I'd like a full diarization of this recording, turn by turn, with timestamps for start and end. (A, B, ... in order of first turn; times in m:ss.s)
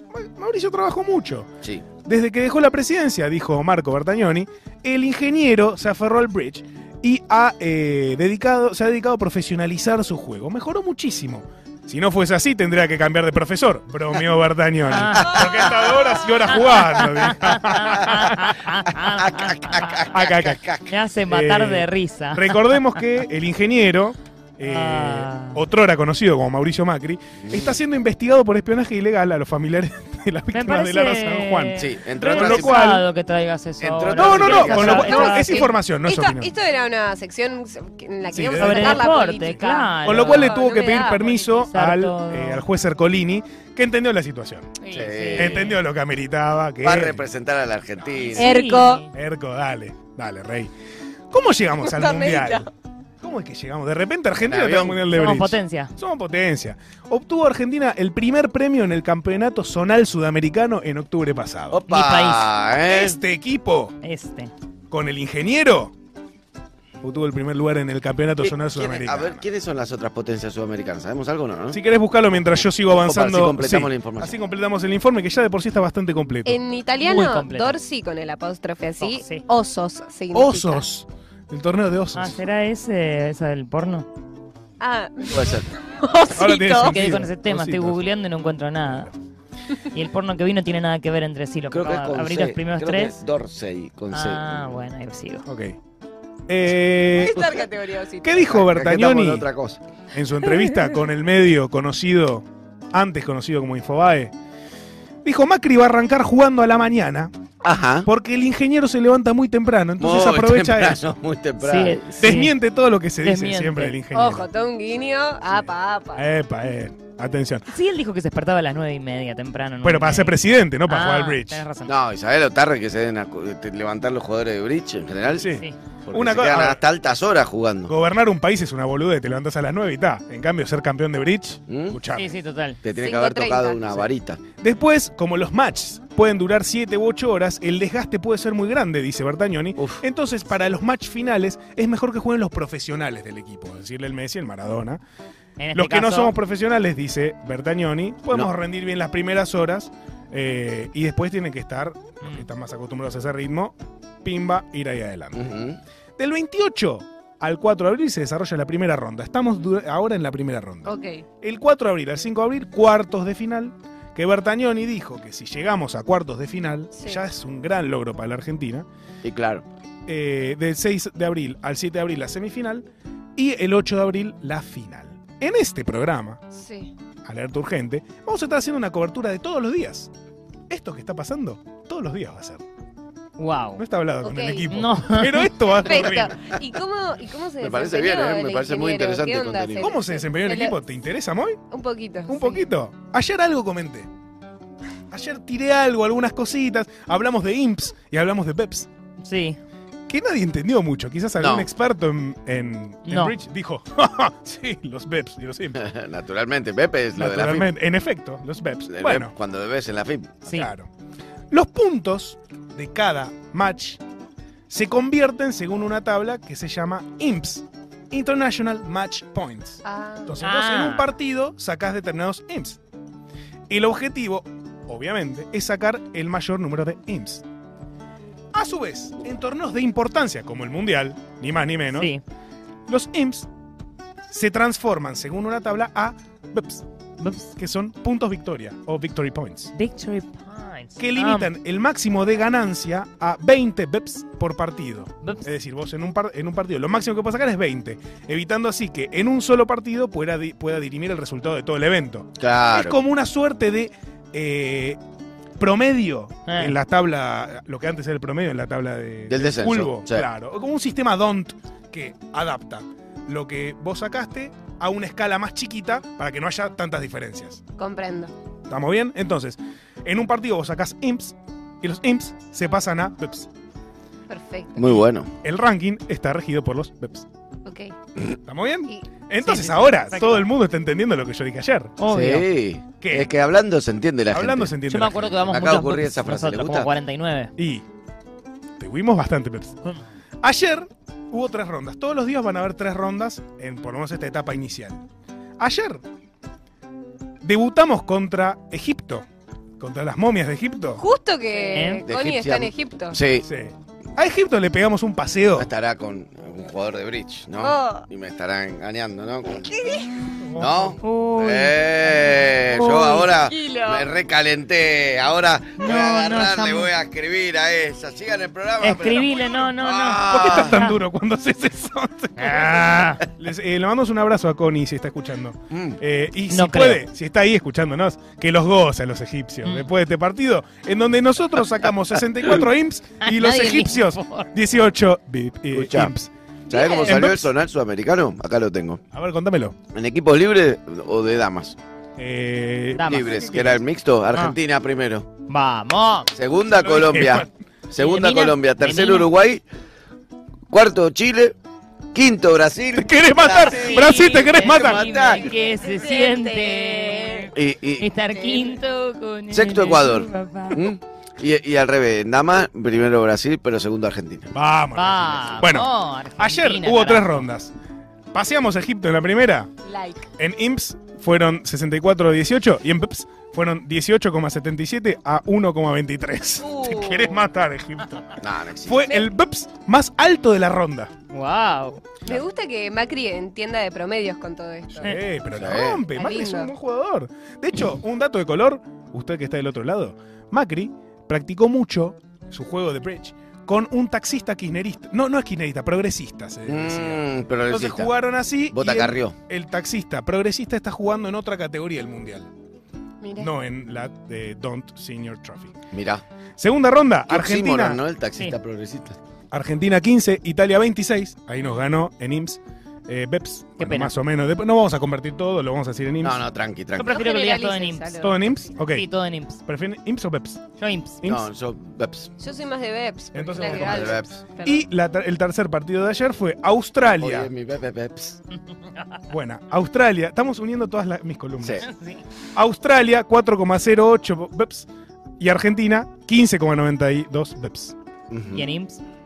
0:00.1-0:01.5 A
0:02.0-0:18.6 A
0:14.9-0:15.4 B
0:15.4-0:15.8 C
0:16.5-0:20.2 B
0:19.2-0:20.9 C
0:20.1-0:20.6 A
0:20.9-0:22.8 B
0:21.3-0:33.1 A
0:24.6-0:25.6 B
0:27.4-0:27.7 C
0:30.5-0:35.7 B
0:31.8-0:32.8 C
0:33.8-0:35.3 C
0:34.1-0:36.5 A
0:34.9-0:41.5 D
0:38.3-0:39.2 A
0:38.6-0:40.6 B
0:40.0-0:44.8 A
0:41.5-0:42.6 B
0:44.8-0:45.8 B
0:44.9-0:45.7 C
0:45.4-0:47.2 A
0:46.8-0:48.5 C
0:48.2-0:49.1 B
0:48.4-0:49.0 D
0:49.1-0:50.7 A
0:51.3-0:52.7 A
0:51.8-0:52.7 D
0:53.2-1:01.8 A
0:54.4-0:55.0 C
0:55.1-0:55.9 B
1:01.7-1:03.2 C
1:01.9-1:02.5 B
1:02.8-1:04.0 A
1:04.0-1:04.5 B
1:04.9-1:05.9 A
1:07.0-1:09.5 A
1:08.4-1:11.8 C
1:11.7-1:16.6 A
1:12.9-1:14.3 C
1:16.4-1:20.8 D
1:17.0-1:17.8 B
1:19.0-1:19.4 B
1:20.3-1:22.4 A
1:22.1-1:24.1 B
1:24.8-1:27.2 D
1:25.3-1:25.7 C
1:26.4-1:28.0 A
1:26.7-1:29.1 B
1:29.9-1:33.2 B
1:31.7-1:34.8 C
1:34.1-1:35.5 B
1:35.5-1:35.8 A
1:36.5-1:37.4 A
1:37.2-1:38.5 D
1:37.3-1:37.6 C
1:38.2-1:39.5 A
1:38.4-1:39.8 C
1:40.1-1:44.3 A
1:45.2-1:47.3 A
1:47.6-1:48.1 C
1:48.1-1:51.0 A
1:50.0-1:52.0 C
1:51.6-1:52.5 B
1:52.2-1:54.5 A
1:53.2-1:54.0 B
1:54.1-1:56.3 D
1:56.2-1:57.7 A
1:57.7-2:01.9 B
1:59.8-2:01.6 A
2:01.9-2:05.5 C
2:05.3-2:06.8 A
2:05.5-2:05.8 B
2:06.1-2:07.9 C
2:07.9-2:12.3 A
2:11.7-2:12.0 C
2:12.1-2:12.8 B
2:12.8-2:14.4 C
2:13.0-2:13.8 D
2:14.6-2:25.0 A
2:25.6-2:26.4 B
2:25.7-2:35.5 A
2:32.2-2:32.5 B
2:35.4-2:35.8 C
2:36.2-2:48.9 A
2:40.8-2:41.2 D
2:47.0-2:47.2 D
2:49.2-2:49.6 C
2:50.1-2:52.9 A
2:53.4-2:56.4 A
2:56.5-2:56.9 D
2:57.2-3:00.1 A
3:00.7-3:02.6 A
3:03.4-3:03.8 B
3:03.8-3:06.4 A
3:04.2-3:04.7 D
3:04.7-3:05.8 B
3:05.7-3:10.8 D
3:07.6-3:09.9 C
3:09.8-3:11.6 A
3:11.7-3:12.6 D
3:12.3-3:14.1 A
3:15.1-3:18.9 A
3:19.2-3:19.6 B
3:20.1-3:25.8 A
3:21.4-3:21.7 C
3:23.1-3:23.3 B
3:25.8-3:27.7 C
3:27.2-3:29.3 A
3:28.9-3:30.4 C
3:30.4-3:30.9 A
3:30.5-3:30.7 B
3:31.5-3:34.0 A
3:34.7-3:42.8 A
3:39.8-3:40.3 D
3:40.4-3:41.1 B
3:43.7-3:47.4 A
3:48.5-3:52.1 A
3:51.9-3:52.2 B
3:52.9-3:53.5 A
3:54.3-3:56.8 A
3:57.2-3:57.5 B
3:57.6-3:59.7 A
3:59.7-4:01.5 B
4:01.0-4:15.0 A
4:05.2-4:05.5 B
4:12.4-4:13.0 C
4:15.6-4:27.6 A
4:16.5-4:16.8 B
4:19.3-4:20.3 C
4:27.8-4:28.3 D
4:28.7-4:33.5 A
4:34.3-4:35.0 D
4:34.8-4:35.3 C
4:35.4-4:37.3 A
4:37.6-4:37.9 D
4:38.4-4:42.0 A
4:38.9-4:40.4 D
4:39.4-4:40.2 B
4:42.0-4:42.5 B
4:42.1-4:44.8 C
4:43.0-4:43.3 A
4:44.3-4:45.4 A
4:44.9-4:47.5 B
4:45.5-4:46.9 C
4:47.6-4:47.8 A
4:48.8-4:49.8 A
4:50.4-4:55.0 A
4:55.6-4:56.0 A
4:57.4-4:59.2 A
4:59.8-5:01.0 A
5:01.0-5:03.2 D
5:01.7-5:02.1 B
5:02.0-5:03.5 C
5:03.4-5:05.7 A
5:05.6-5:09.7 C
5:07.6-5:08.1 D
5:09.6-5:10.4 D
5:10.4-5:11.0 A
5:10.6-5:20.8 C
5:11.0-5:12.0 B
5:12.7-5:14.1 D
5:15.8-5:16.9 B
5:18.8-5:21.0 B
5:20.3-5:36.3 A
5:22.4-5:23.2 B
5:25.7-5:26.0 C
5:26.5-5:27.0 B
5:33.2-5:34.5 B
5:35.7-5:36.2 C
5:36.7-5:39.0 C
5:36.7-5:37.3 D
5:37.1-5:37.5 A
5:39.1-5:39.8 A
5:39.9-5:41.8 C
5:42.2-5:43.7 A
5:42.9-5:43.8 B
5:43.1-5:45.3 C
5:44.3-5:44.6 B
5:45.5-5:46.3 B
5:46.3-5:49.6 C
5:46.6-5:47.5 A
5:48.0-5:49.3 B
5:50.7-5:51.6 C
5:52.1-5:55.5 C
5:53.0-5:55.1 A
5:53.7-6:00.9 B
5:55.5-5:57.5 D
5:57.5-5:58.1 C
5:58.3-5:58.8 D
5:59.5-6:04.5 C
6:04.5-6:07.7 A
6:04.9-6:07.4 B
6:08.3-6:09.7 A
6:09.9-6:10.3 D
6:10.4-6:21.1 A
6:16.6-6:17.5 D
6:18.4-6:19.1 C
6:19.0-6:19.3 D
6:21.3-6:22.0 B
6:22.3-6:25.2 D
6:24.9-6:42.5 A
6:25.5-6:26.1 C
6:26.2-6:26.7 D
6:36.7-6:38.1 C
6:38.7-6:39.4 C
6:43.2-6:43.5 D
6:43.4-6:45.7 A
6:45.9-6:46.2 C
6:46.6-6:48.0 A
6:47.3-6:49.2 C
6:49.5-6:56.4 A
6:53.8-6:54.1 B
6:56.2-6:57.2 C
6:57.0-6:59.6 B
6:57.1-6:58.5 D
6:58.2-6:59.1 A
6:59.6-7:00.6 A
7:00.8-7:01.2 B
7:01.2-7:01.5 A
7:01.2-7:02.3 C
7:02.4-7:04.8 D
7:03.3-7:07.5 A
7:03.8-7:04.4 C
7:07.2-7:08.4 C
7:08.9-7:09.2 B
7:09.3-7:11.9 A
7:11.8-7:12.2 B
7:12.6-7:14.9 A
7:15.4-7:18.0 A
7:18.3-7:18.7 C
7:18.5-7:19.0 B